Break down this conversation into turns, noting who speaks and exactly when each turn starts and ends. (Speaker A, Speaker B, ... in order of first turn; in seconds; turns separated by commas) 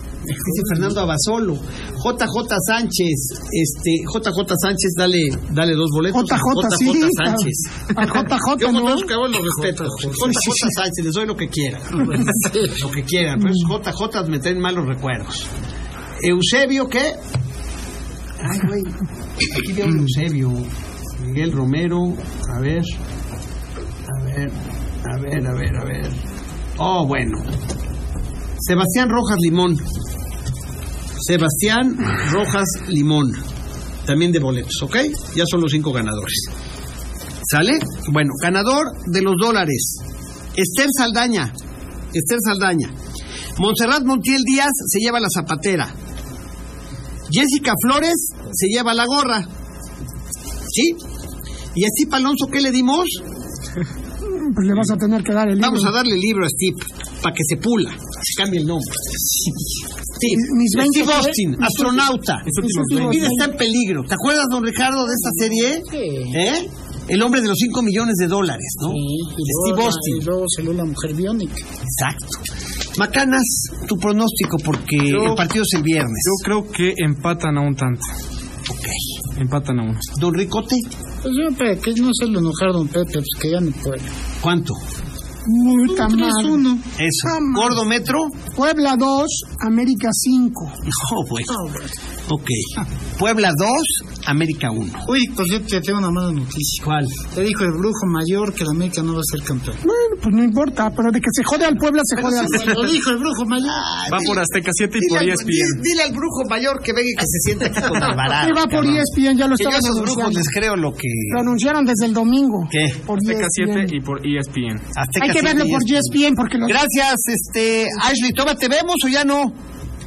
Speaker A: 0.4-0.8, Speaker B: 0.4-7.9, Speaker C: 6.1-9.1, Speaker B: 8.6-15.5, Speaker A: 9.2-10.5, Speaker C: 10.2-10.7, Speaker A: 12.0-12.8, Speaker B: 16.2-17.2, Speaker B: 18.4-23.0, Speaker B: 24.1-26.2, Speaker B: 26.8-27.4, Speaker B: 28.6-29.8, Speaker B: 31.2-33.4, Speaker B: 34.0-36.5, Speaker B: 37.4-40.0, Speaker B: 40.5-41.5, Speaker B: 42.1-42.9, Speaker B: 43.6-45.9, Speaker B: 47.3-49.5, Speaker B: 50.7-51.0, Speaker B: 51.7-53.2, Speaker C: 54.2-55.9, Speaker B: 55.6-58.9, Speaker B: 60.2-70.2, Speaker C: 60.2-63.5, Speaker D: 62.5-63.4, Speaker A: 65.1-66.4, Speaker A: 68.8-71.6, Speaker B: 71.8-72.4, Speaker B: 73.0-76.4, Speaker D: 75.1-75.4, Speaker D: 76.2-78.1, Speaker B: 78.7-79.0, Speaker D: 79.4-80.0, Speaker B: 80.2-80.9, Speaker A: 81.2-84.1, Speaker B: 84.4-84.8, Speaker C: 85.5-86.6, Speaker A: 85.6-86.8, Speaker B: 87.0-88.4, Speaker C: 87.2-87.8, Speaker C: 88.5-90.7, Speaker B: 90.8-91.6, Speaker A: 91.5-91.9, Speaker B: 92.3-95.0, Speaker A: 95.0-99.8, Speaker B: 96.8-97.1, Speaker C: 99.8-102.9, Speaker A: 102.2-103.8, Speaker B: 103.6-111.5, Speaker D: 104.1-105.8, Speaker C: 108.2-110.4, Speaker C: 111.3-113.9, Speaker B: 112.7-113.0, Speaker D: 113.2-114.8, Speaker B: 115.0-119.5, Speaker C: 115.2-116.8